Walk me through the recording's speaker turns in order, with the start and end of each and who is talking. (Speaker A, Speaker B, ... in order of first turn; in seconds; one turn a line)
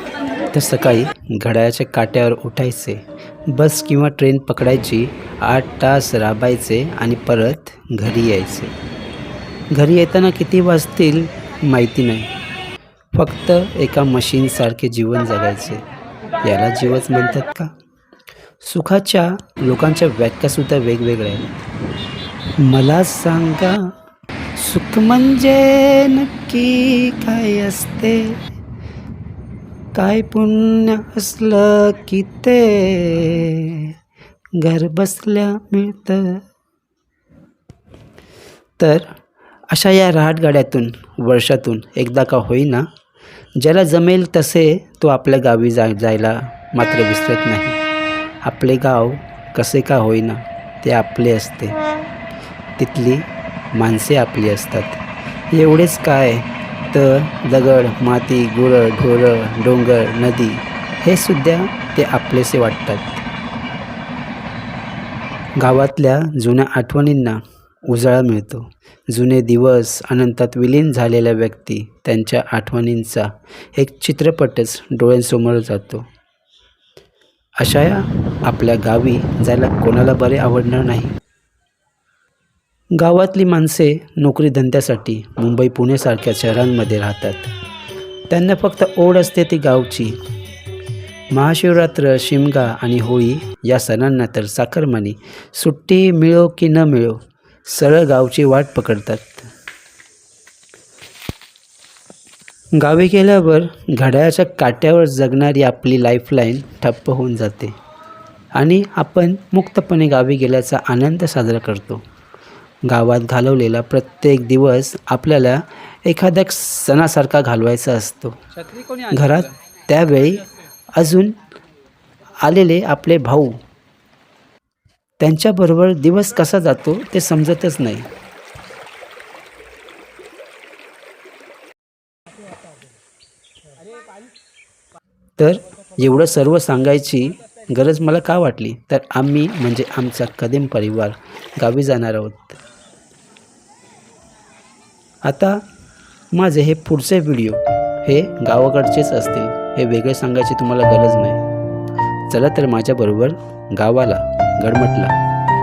Speaker A: 0.5-8.7
Speaker A: 9.7-12.3
Speaker A: 13.1-15.8
Speaker A: 16.4-17.7
Speaker A: 18.6-21.5
Speaker A: 22.6-23.9
Speaker A: 24.6-28.4
Speaker A: 29.9-33.9
Speaker A: 34.6-36.4
Speaker A: 38.8-39.1
Speaker A: 39.7-42.9
Speaker A: 43.6-47.8
Speaker A: 48.4-51.8
Speaker A: 52.8-63.2
Speaker A: 65.6-76.1
Speaker A: 77.6-81.2
Speaker A: 83.0-87.5
Speaker A: 88.3-90.2
Speaker A: 91.3-99.5
Speaker A: 102.8-107.8
Speaker A: 108.6-112.0
Speaker A: 112.9-121.4
Speaker A: 122.4-123.6
Speaker A: 125.2-128.1
Speaker A: 135.4-142.6
Speaker A: 145.2-145.6
Speaker A: 146.3-151.4
Speaker A: 152.3-155.1